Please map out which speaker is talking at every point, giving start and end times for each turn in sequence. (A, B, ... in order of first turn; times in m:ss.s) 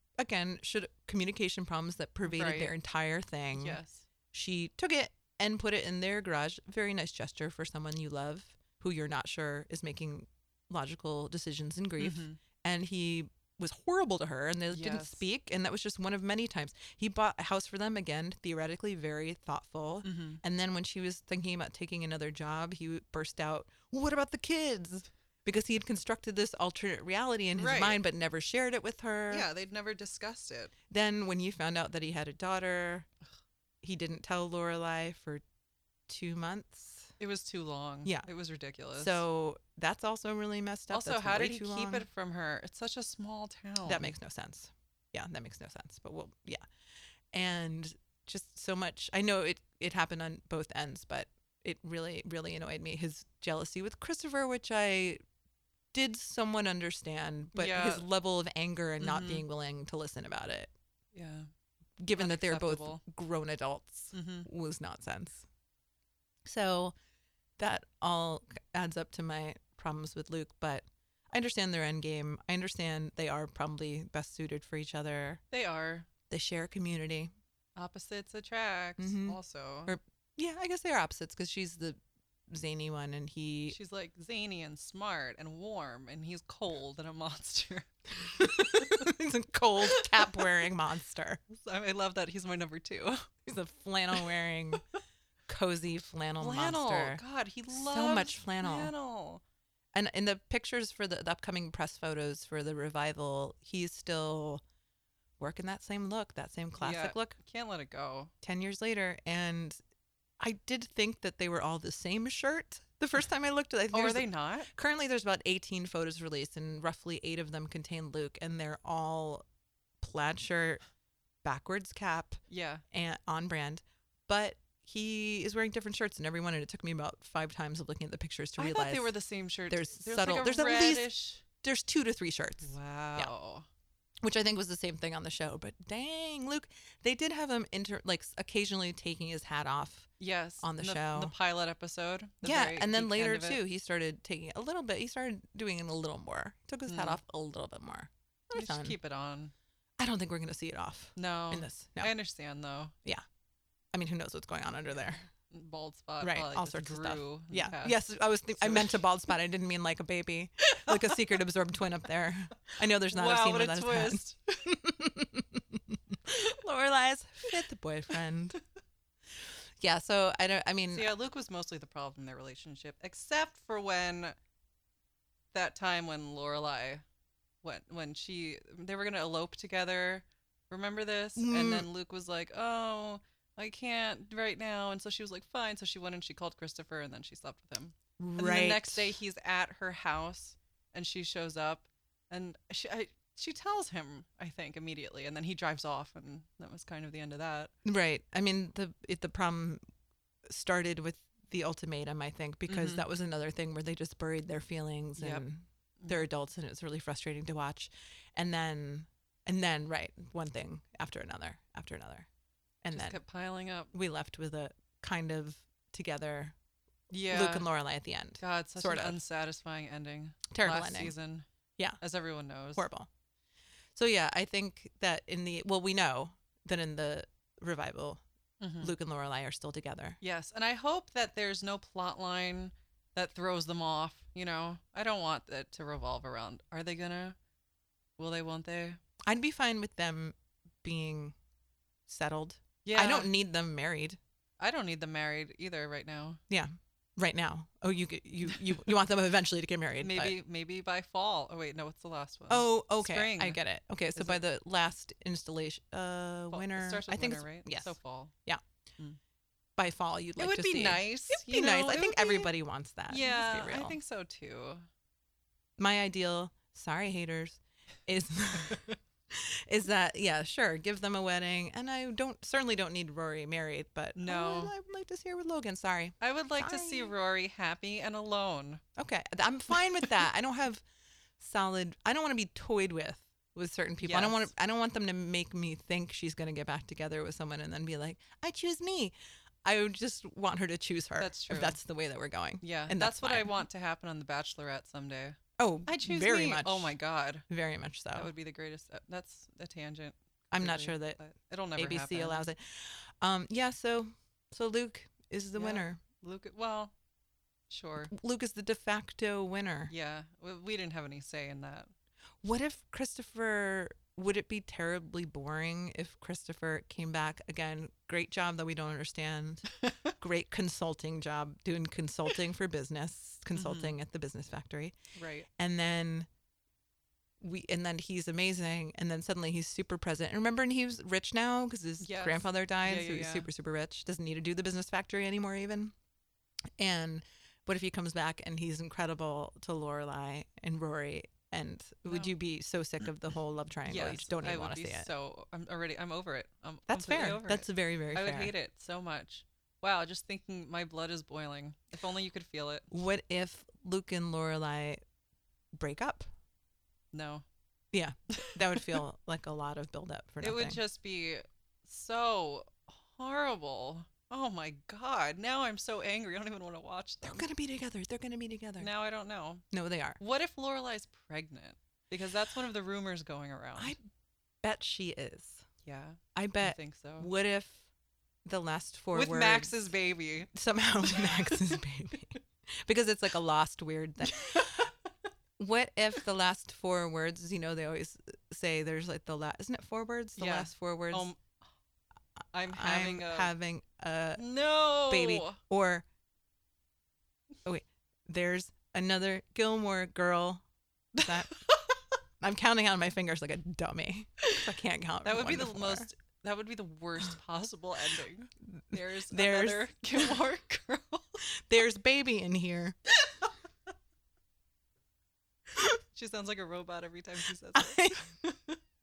0:00.2-0:03.8 A
0:02.2-0:02.7 B
0:03.5-0:04.1 B
0:04.3-0:29.5 A
0:12.0-0:12.4 B
0:14.7-0:15.2 B
0:20.0-0:20.4 B
0:27.6-0:28.0 B
0:29.3-0:30.7 B
0:30.9-0:33.1 A
0:33.8-0:35.4 A
0:36.1-0:37.1 A
0:37.2-0:39.2 B
0:39.0-0:42.0 A
0:40.9-0:44.1 B
0:43.8-0:46.6 A
0:47.3-0:55.2 A
0:55.9-1:00.7 A
0:57.5-0:58.0 B
0:59.0-0:59.4 B
1:01.1-1:01.5 B
1:02.0-1:05.5 A
1:02.1-1:03.0 B
1:04.1-1:04.5 B
1:06.4-1:06.9 A
1:07.6-1:15.4 A
1:15.5-1:16.1 B
1:16.3-1:17.3 A
1:17.8-1:20.0 B
1:19.0-1:23.8 A
1:23.7-1:29.1 B
1:28.4-1:31.4 A
1:29.8-1:30.5 B
1:31.5-1:33.3 B
1:33.4-1:34.8 A
1:35.5-1:38.9 A
1:36.4-1:39.4 B
1:39.9-1:44.6 A
1:45.4-1:47.4 A
1:46.8-1:48.3 B
1:48.4-1:49.8 A
1:50.4-1:59.4 A
1:53.9-1:54.7 B
2:00.0-2:00.8 A
2:01.4-2:09.1 A
2:02.5-2:02.8 B
2:08.6-2:11.4 B
2:09.7-2:11.1 A
2:11.6-2:13.3 A
2:12.6-2:13.7 B
2:14.2-2:20.1 A
2:20.2-2:23.6 B
2:20.6-2:21.3 A
2:22.4-2:29.0 A
2:26.9-2:27.2 B
2:28.5-2:29.5 B
2:30.0-2:32.1 A
2:31.2-2:33.0 B
2:33.9-2:35.2 A
2:35.5-2:38.0 B
2:36.2-2:48.6 A
2:38.6-2:39.0 B
2:40.9-2:41.1 B
2:42.9-2:44.8 B
2:49.8-2:51.1 A
2:50.9-2:54.3 B
2:55.5-2:57.0 B
2:57.6-3:17.7 B
3:01.4-3:01.9 A
3:08.2-3:09.1 A
3:17.8-3:19.8 A
3:20.4-3:32.3 A
3:22.7-3:23.0 B
3:25.2-3:25.4 B
3:26.0-3:26.3 B
3:32.8-3:33.2 A
3:32.9-3:33.9 B
3:33.9-3:36.5 A
3:37.1-3:37.7 B
3:37.3-3:39.2 A
3:38.4-3:41.4 B
3:40.5-3:41.1 A
3:42.0-3:42.9 B
3:42.8-3:43.1 A
3:43.9-3:48.2 A
3:48.6-3:48.9 B
3:48.8-3:50.2 A
3:50.2-3:57.4 B
3:58.2-3:59.0 B
3:59.2-4:01.3 A
4:02.1-4:04.2 A
4:02.8-4:03.3 B
4:04.6-4:06.4 B
4:06.5-4:10.4 A
4:10.0-4:13.6 B
4:12.5-4:18.6 A
4:16.5-4:18.3 B
4:19.8-4:24.0 A
4:20.4-4:22.5 B
4:23.1-4:24.8 B
4:25.8-4:37.1 A
4:34.2-4:34.7 B
4:36.2-4:38.8 B
4:39.0-4:40.8 A
4:41.4-4:49.1 A
4:44.0-4:44.5 B
4:49.6-4:53.6 A
4:51.2-4:51.8 B
4:52.6-4:57.4 B
4:55.6-4:56.9 A
4:57.5-4:58.3 A
4:58.1-5:02.5 B
5:00.5-5:01.2 A
5:01.8-5:06.0 A
5:05.6-5:06.9 B
5:07.7-5:08.1 B
5:08.1-5:09.9 A
5:09.9-5:11.9 B
5:12.4-5:25.0 A
5:19.8-5:20.1 B
5:23.6-5:24.0 B
5:25.1-5:25.5 B
5:25.5-5:26.3 A
5:27.4-5:35.9 A
5:32.0-5:33.5 B
5:36.8-5:45.1 A
5:42.1-5:42.3 B
5:43.9-5:52.9 B
5:46.9-5:48.5 A
5:52.9-5:55.0 A
5:55.7-5:56.3 A
5:57.1-5:57.4 B
5:57.9-6:00.8 A
5:58.3-5:59.0 B
6:00.4-6:07.4 B
6:07.2-6:08.9 A
6:08.8-6:09.6 B
6:09.7-6:10.2 A
6:10.2-6:13.9 B
6:14.6-6:15.6 A
6:15.8-6:17.3 B
6:16.3-6:17.8 A
6:18.4-6:19.9 A
6:19.1-6:20.5 B
6:20.5-6:24.8 A
6:21.1-6:21.4 B
6:24.3-6:25.1 B
6:25.6-6:31.3 A
6:30.4-6:31.4 B
6:32.5-6:33.5 B
6:32.7-6:34.4 A
6:34.4-6:35.6 B
6:35.1-6:36.0 A
6:37.6-6:40.6 A
6:41.2-6:41.8 B
6:41.2-6:41.5 A
6:42.4-6:46.1 A
6:45.2-6:51.4 B
6:48.9-6:50.3 A
6:51.7-6:53.0 A
6:56.1-6:58.2 B
6:57.7-6:58.8 A